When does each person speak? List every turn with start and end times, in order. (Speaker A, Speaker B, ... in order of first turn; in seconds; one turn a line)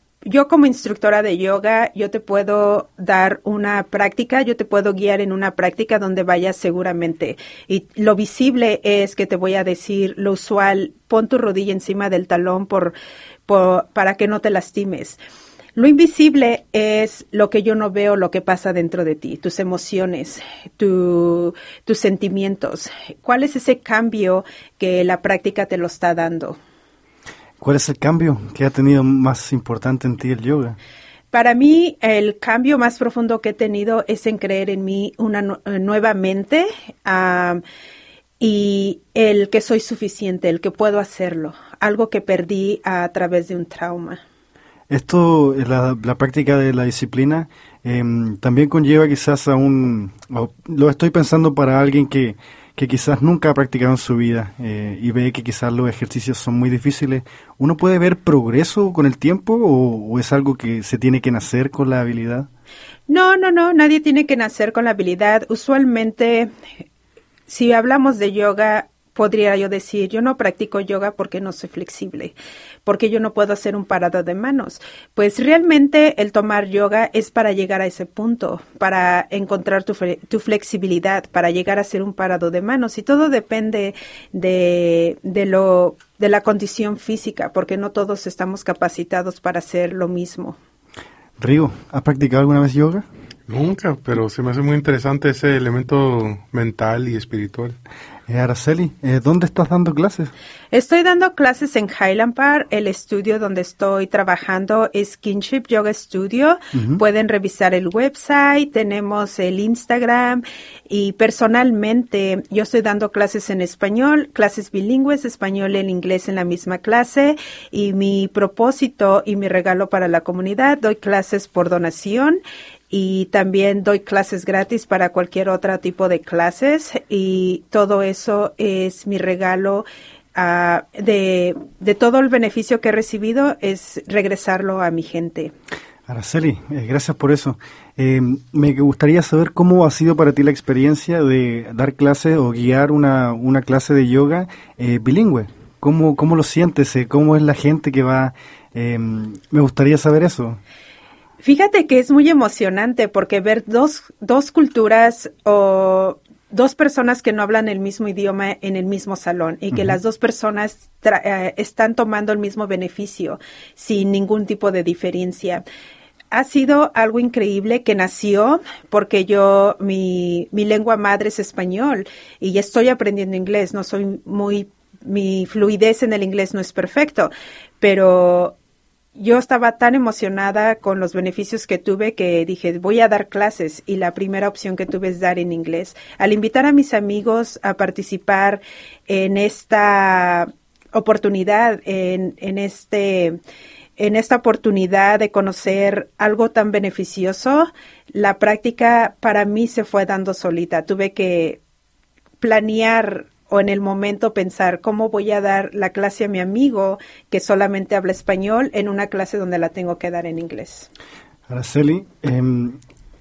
Speaker A: 0.3-12.9
Speaker A: 13.5-15.2
Speaker A: 15.8-26.6
Speaker B: 27.6-30.8
Speaker A: 31.3-37.6
Speaker A: 38.4-44.2
Speaker B: 44.9-62.5
Speaker A: 63.1-66.5
Speaker A: 67.5-72.3
Speaker A: 72.8-90.6
Speaker B: 91.4-93.1
Speaker C: 93.5-97.8
Speaker B: 98.3-100.3
Speaker A: 100.7-122.4
Speaker B: 106.7-107.0
Speaker A: 122.9-135.5
Speaker B: 136.1-150.6
Speaker A: 151.4-165.6
Speaker A: 166.3-178.6
Speaker A: 179.2-193.4
Speaker A: 194.0-201.6
Speaker A: 202.4-210.9
Speaker B: 211.5-212.8